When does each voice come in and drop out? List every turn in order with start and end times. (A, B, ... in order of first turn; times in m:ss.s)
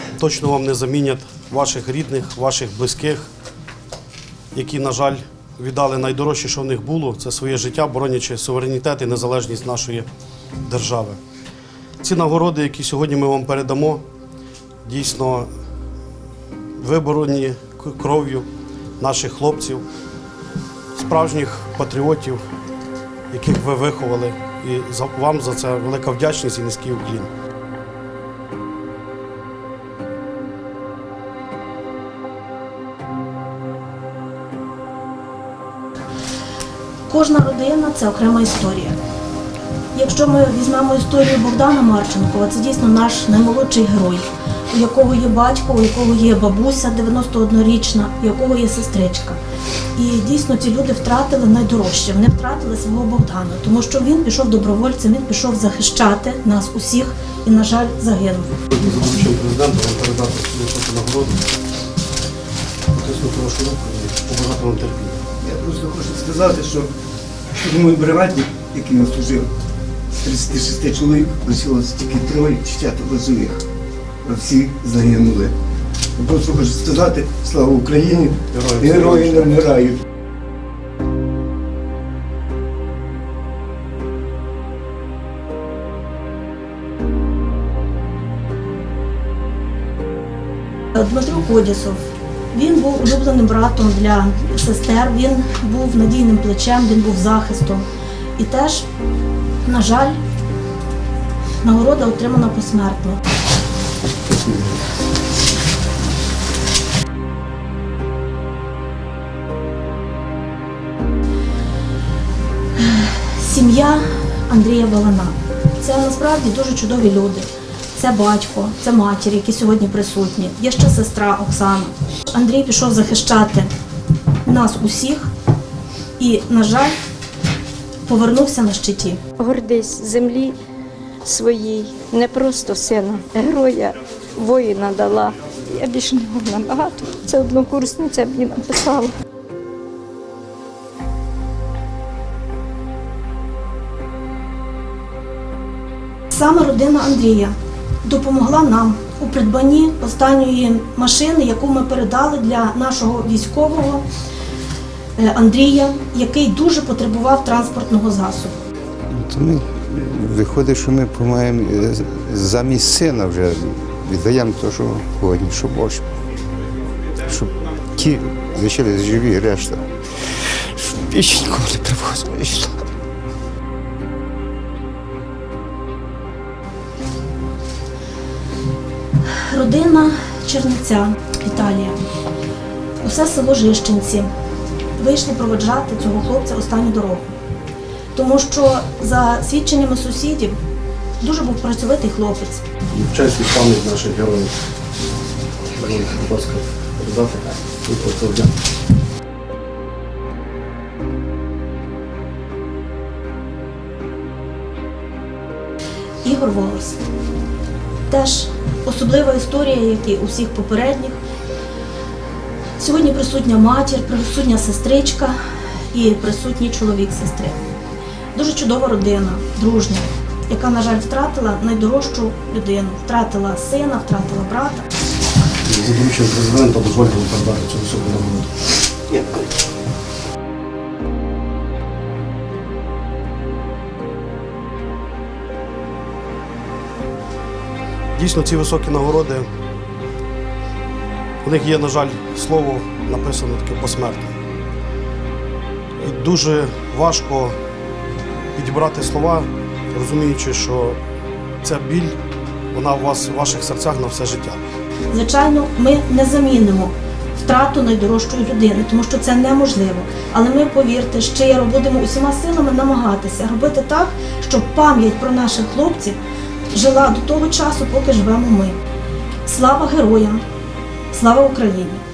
0:00.2-0:03.3 A
0:04.5-0:10.1 A
0:10.6-0:11.2 A
0:12.0-0:14.0 A
0:14.8-0:15.5 A
0:16.8-0:18.5 A
0:19.0-0:19.8 A
0:20.9-0:22.4 A
0:23.3-0:27.3 A
0:37.1-0:39.0 B
0:39.9-0:49.4 B
0:50.0-0:58.5 B
0:58.7-1:01.4 A
1:02.9-1:05.2 A
1:05.4-1:06.9 C
1:07.6-1:09.5 C
1:10.2-1:13.6 C
1:14.2-1:15.5 C
1:16.2-1:20.0 C
1:18.5-1:19.6 A
1:30.9-1:38.8 B
1:39.6-1:40.2 B
1:41.6-1:43.2 B
1:52.8-2:03.7 B
2:04.4-2:05.3 B
2:06.2-2:07.0 B
2:08.0-2:09.2 B
2:09.4-2:10.6 D
2:11.2-2:19.1 D
2:26.3-2:34.0 B
2:35.2-2:38.6 B
2:39.1-2:46.0 E
2:47.2-2:52.9 E
2:59.2-3:02.0 B
3:03.0-3:04.3 B
3:05.0-3:07.3 B
3:08.1-3:10.6 B
3:11.2-3:12.6 B
3:12.9-3:14.5 A
3:15.7-3:18.5 A
3:26.2-3:27.0 B
3:28.1-3:31.2 B
3:32.8-3:35.4 B
3:35.9-3:37.6 B
3:38.3-3:44.9 B
3:45.6-3:48.5 A
3:58.1-3:59.5 A
4:01.4-4:04.3 A
4:06.0-4:07.6 A
4:08.5-4:11.0 A
4:11.6-4:12.1 A
4:12.7-4:14.6 A
4:15.1-4:26.2 B
4:26.7-4:28.8 B
4:29.4-4:30.4 B
4:31.1-4:32.0 B